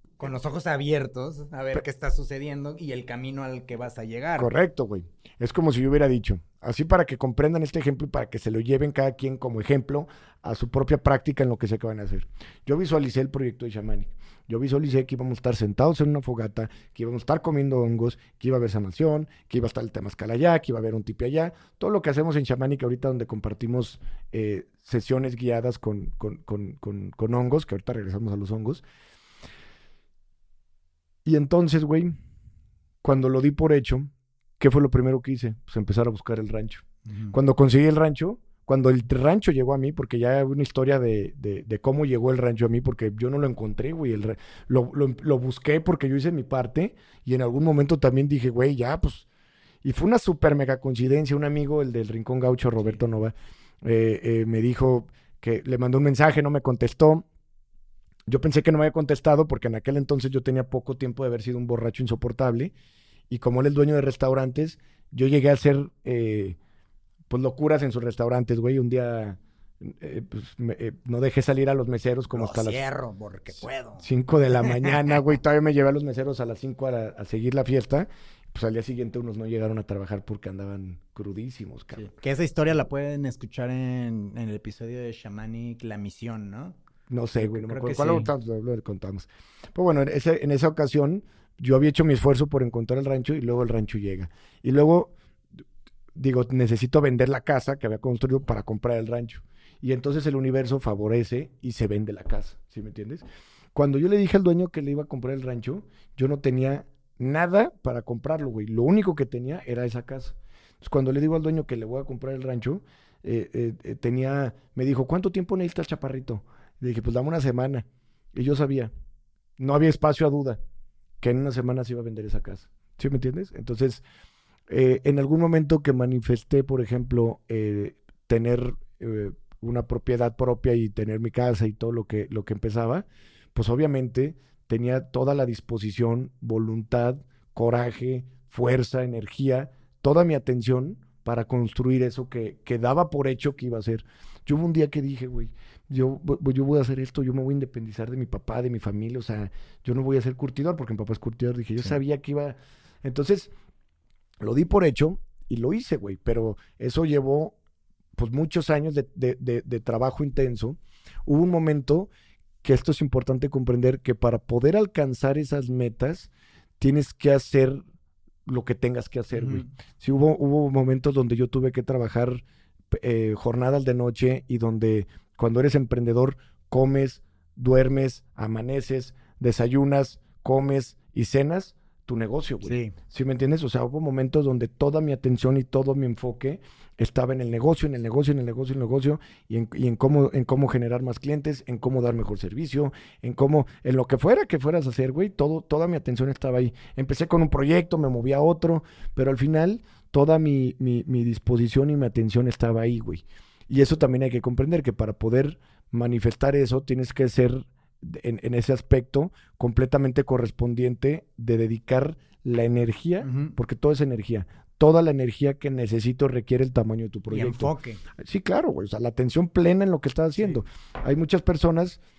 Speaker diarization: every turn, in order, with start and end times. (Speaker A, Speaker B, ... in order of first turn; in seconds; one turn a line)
Speaker A: 0.2-4.5
Speaker B: 4.4-28.8
Speaker B: 31.2-32.2
Speaker B: 33.0-49.3
Speaker A: 37.1-37.4
Speaker B: 49.8-57.2
Speaker B: 58.3-62.7
Speaker B: 63.3-66.6
Speaker B: 67.3-72.8
Speaker A: 72.3-75.0
Speaker B: 74.0-82.1
Speaker A: 81.9-86.8
Speaker B: 87.1-95.1
Speaker A: 87.4-88.3
Speaker B: 96.2-103.2
Speaker B: 103.8-118.9
Speaker B: 119.6-120.6
Speaker B: 121.2-124.0
Speaker B: 124.7-153.5
Speaker B: 154.4-157.6
Speaker B: 158.2-162.1
Speaker B: 162.6-167.8
Speaker B: 168.5-222.0
Speaker A: 169.3-169.7
Speaker A: 182.6-182.9
Speaker A: 213.2-213.6
Speaker A: 217.3-218.0